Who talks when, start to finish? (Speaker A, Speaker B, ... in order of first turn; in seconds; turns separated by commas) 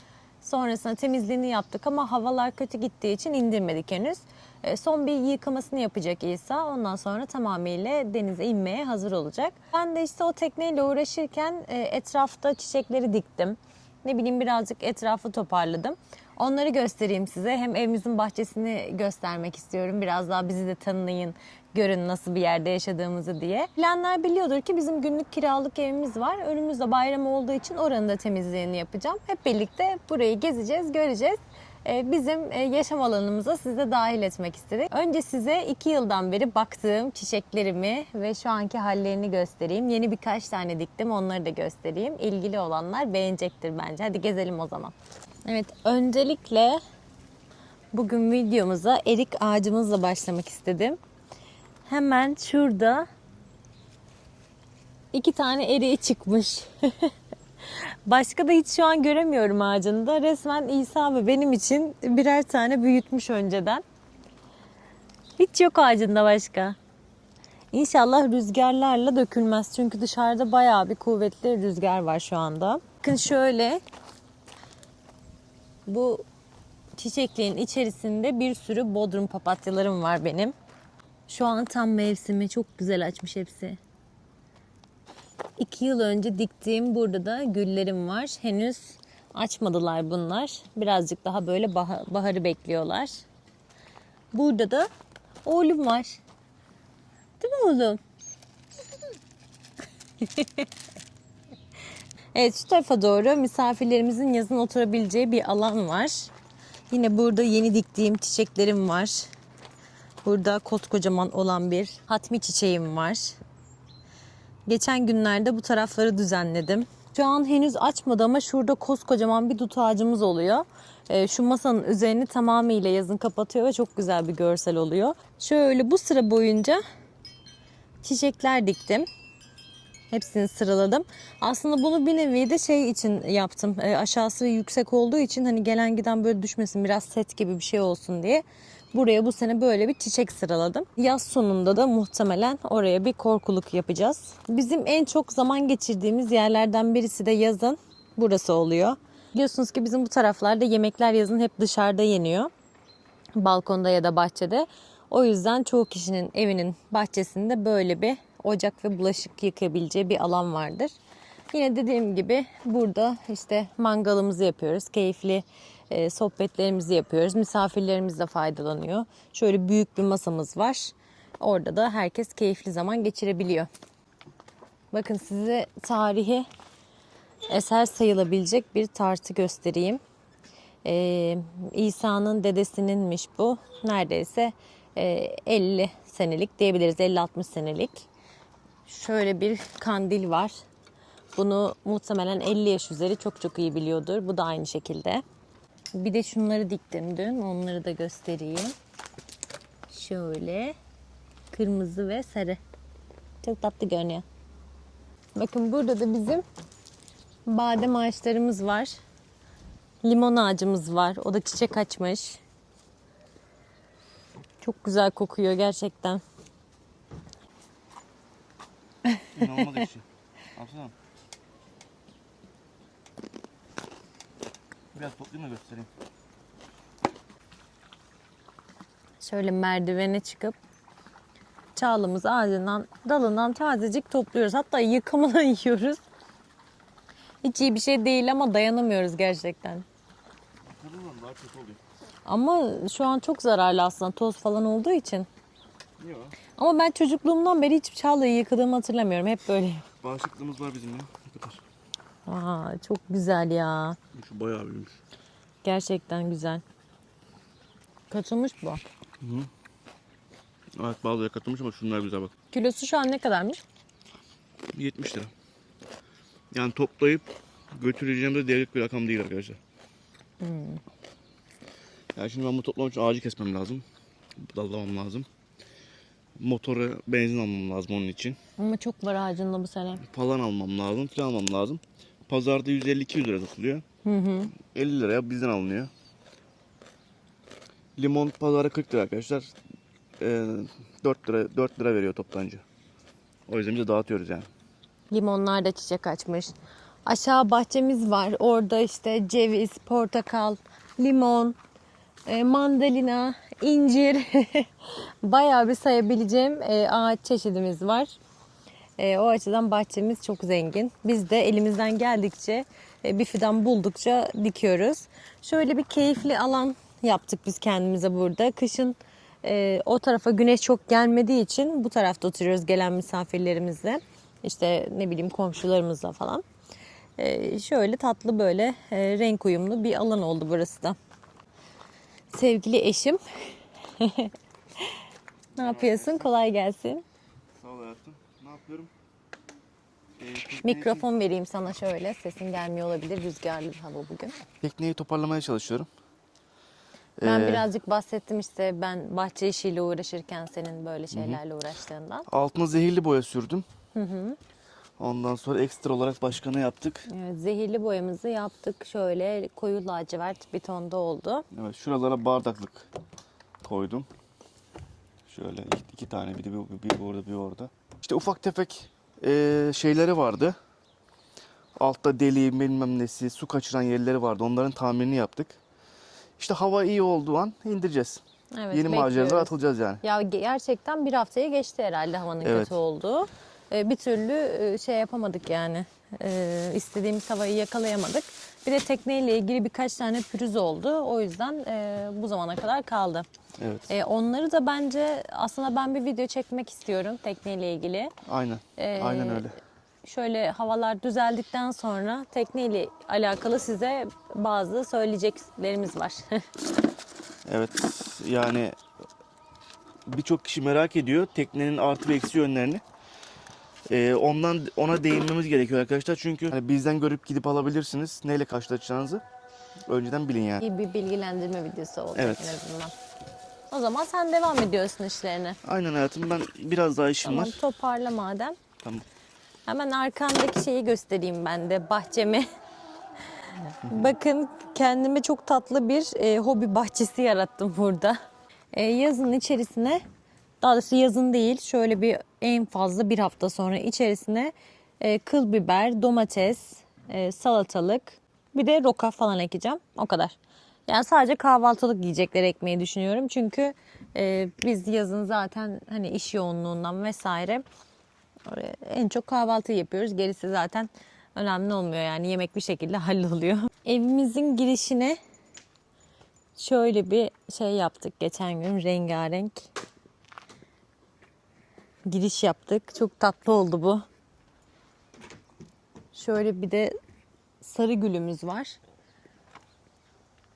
Speaker A: 0.4-44.9, Speaker A: 45.5-46.8, Speaker A: 47.9-51.0, Speaker A: 51.9-53.1, Speaker A: 55.1-57.1, Speaker A: 57.7-63.8, Speaker A: 65.4-66.8, Speaker A: 67.7-73.8, Speaker A: 75.9-76.2, Speaker A: 77.0-80.5, Speaker A: 81.3-83.8, Speaker A: 85.6-93.3, Speaker A: 94.3-94.9, Speaker A: 95.4-96.2, Speaker A: 97.4-98.0, Speaker A: 100.2-100.7, Speaker A: 102.3-106.3, Speaker A: 106.9-109.3, Speaker A: 110.2-113.4, Speaker A: 114.7-126.8, Speaker A: 128.0-129.1, Speaker A: 130.1-152.5, Speaker A: 153.4-160.9, Speaker A: 161.5-173.7, Speaker A: 174.9-176.5, Speaker A: 177.5-180.0, Speaker A: 180.8-188.1, Speaker A: 188.9-190.5, Speaker A: 191.3-195.2, Speaker A: 195.9-198.8, Speaker A: 199.9-200.8, Speaker A: 201.5-202.6, Speaker A: 203.4-204.2, Speaker A: 205.3-206.4, Speaker A: 207.5-209.0, Speaker A: 210.0-212.4, Speaker A: 214.6-216.2, Speaker B: 219.3-220.9, Speaker B: 224.9-225.9, Speaker A: 229.2-230.6, Speaker A: 231.8-236.0, Speaker A: 237.4-239.9, Speaker B: 240.7-241.8, Speaker A: 242.3-245.3, Speaker B: 246.0-246.4, Speaker A: 246.6-249.8, Speaker B: 250.0-251.6, Speaker A: 252.3-254.0, Speaker B: 254.1-255.0, Speaker A: 255.6-256.6, Speaker A: 258.1-258.8, Speaker B: 259.2-259.5, Speaker B: 260.8-262.3, Speaker A: 262.5-263.6, Speaker B: 264.7-265.3, Speaker B: 266.5-269.6, Speaker A: 270.4-270.8, Speaker B: 272.1-273.8, Speaker B: 274.4-275.3, Speaker B: 276.4-278.4, Speaker A: 278.6-280.0, Speaker B: 280.0-283.8, Speaker A: 284.1-284.5, Speaker B: 284.7-285.9, Speaker B: 288.0-289.5, Speaker B: 290.2-292.6, Speaker B: 293.5-294.5, Speaker A: 295.1-296.5, Speaker A: 297.1-301.6, Speaker A: 302.3-308.2, Speaker A: 309.0-326.4, Speaker A: 327.2-331.0, Speaker A: 332.3-333.2, Speaker A: 333.9-335.0, Speaker B: 335.5-336.3, Speaker A: 335.6-337.0, Speaker B: 337.6-338.9, Speaker B: 340.2-341.1, Speaker A: 340.6-344.4, Speaker B: 344.6-345.9, Speaker B: 347.2-347.7, Speaker A: 347.2-352.3, Speaker B: 351.1-351.4, Speaker B: 352.3-353.6, Speaker A: 353.9-354.4, Speaker B: 355.0-357.1, Speaker A: 357.1-361.4, Speaker B: 361.5-362.9, Speaker B: 363.6-364.1, Speaker B: 365.3-370.6, Speaker B: 371.8-375.6, Speaker B: 376.4-380.0, Speaker A: 378.6-393.3, Speaker B: 382.4-382.8, Speaker B: 393.6-393.9, Speaker A: 393.9-398.1, Speaker B: 398.3-399.6, Speaker A: 398.8-399.5, Speaker A: 400.0-406.4, Speaker B: 407.5-408.8, Speaker B: 410.1-412.8, Speaker B: 413.9-419.2, Speaker B: 419.9-420.6, Speaker A: 420.6-422.9, Speaker B: 422.1-422.6, Speaker A: 423.7-425.6, Speaker B: 425.6-427.6, Speaker A: 427.2-428.6, Speaker B: 428.8-429.1, Speaker A: 429.7-432.5, Speaker A: 433.5-438.2, Speaker A: 438.7-440.0, Speaker A: 440.6-457.6, Speaker A: 458.5-465.2, Speaker A: 466.6-469.7, Speaker A: 472.1-474.1, Speaker A: 476.1-476.9, Speaker A: 477.6-478.8